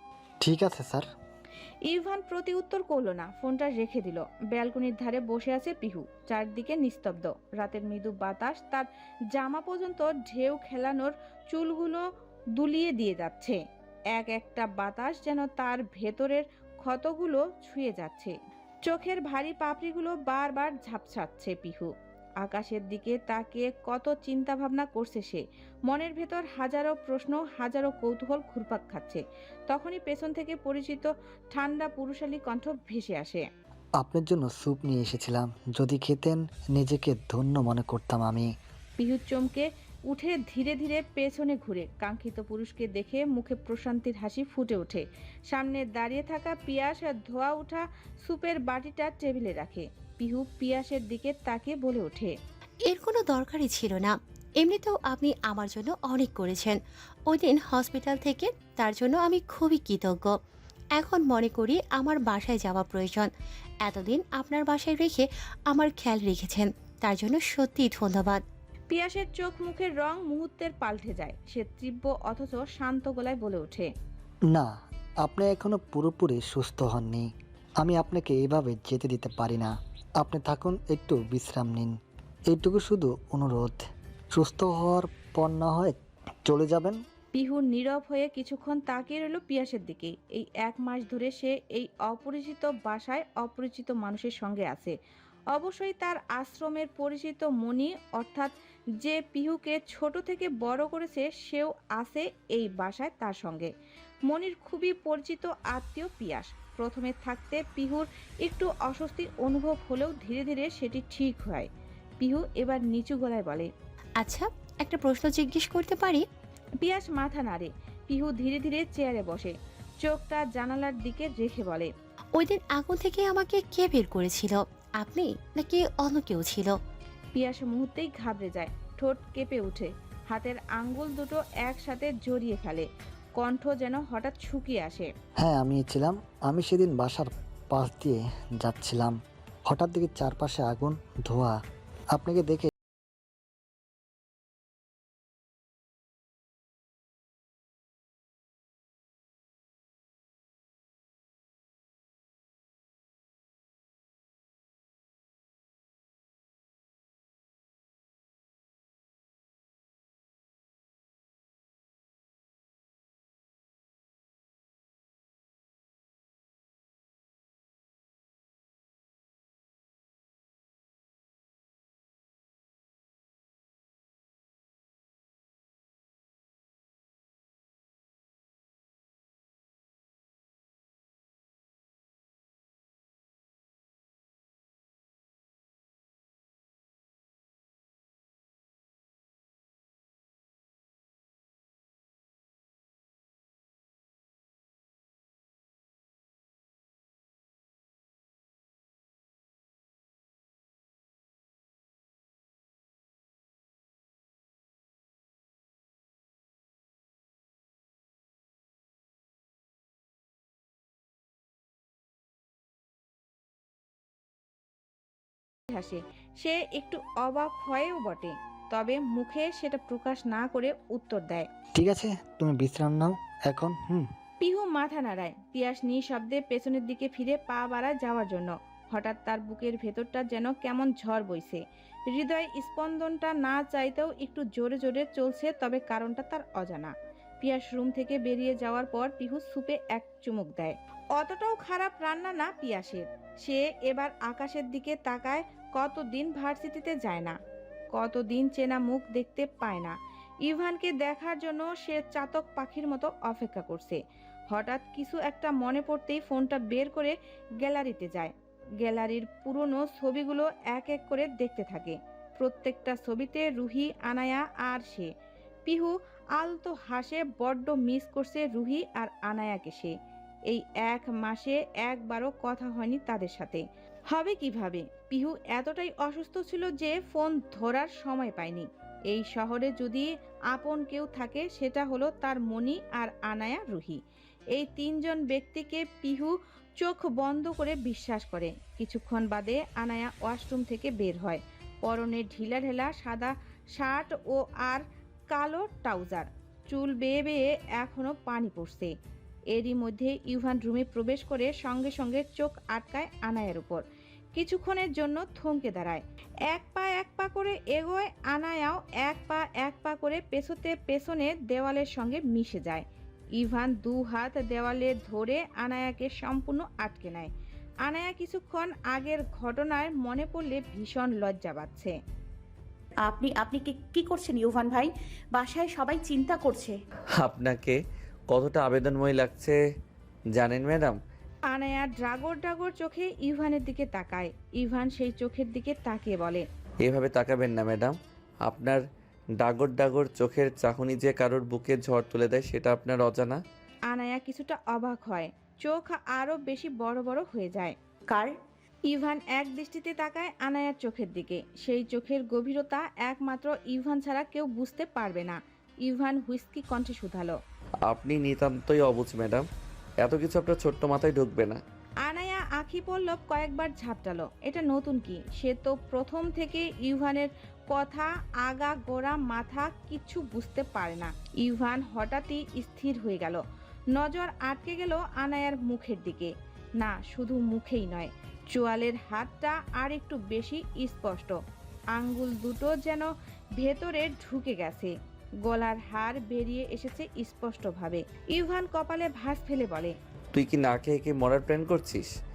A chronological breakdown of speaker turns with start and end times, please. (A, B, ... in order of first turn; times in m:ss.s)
0:00.4-0:01.1 A
0:01.9-0:12.0 B
0:12.6-0:13.6 B
0:14.1-0:18.3 B
0:18.8-0:21.9 B
0:22.4-0:33.4 B
0:34.0-0:38.5 A
0:39.0-0:52.4 B
0:52.9-0:56.8 C
0:57.3-1:00.3 C
1:01.0-1:03.3 C
1:03.8-1:08.4 C
1:08.9-1:13.9 B
1:15.2-1:17.3 A
1:17.8-1:21.9 A
1:22.5-1:27.0 A
1:27.3-1:34.9 B
1:35.5-1:43.7 B
1:44.3-1:51.7 B
1:52.2-1:53.7 B
1:54.2-1:56.2 C
1:56.8-2:01.9 B
2:02.4-2:06.7 C
2:07.3-2:12.9 B
2:13.4-2:15.1 B
2:15.4-2:19.2 A
2:19.7-2:21.6 A
2:22.1-2:22.7 A
3:35.7-3:41.5 B
3:41.8-3:44.1 A
3:44.4-3:51.6 B
3:52.1-4:07.4 B
4:07.9-4:14.0 B
4:14.5-4:25.1 B
4:25.6-4:29.9 B
4:30.5-4:44.0 B
4:44.5-4:58.9 B
4:59.5-5:03.8 B
5:04.3-5:12.8 B
5:13.4-5:17.3 B
5:17.8-5:21.9 B
5:23.0-5:26.8 D
5:27.2-5:29.6 E
5:30.4-5:31.0 E
5:31.5-5:36.4 B
5:36.8-5:38.8 E
5:39.4-5:43.4 E
5:43.9-5:47.8 B
5:48.1-5:48.3 D
5:48.9-5:57.4 B
5:57.9-5:59.5 E
6:00.0-6:01.6 E
6:02.0-6:13.4 B
6:13.9-6:21.4 B
6:21.9-6:24.9 B
6:25.4-6:29.9 B
6:30.3-6:32.1 E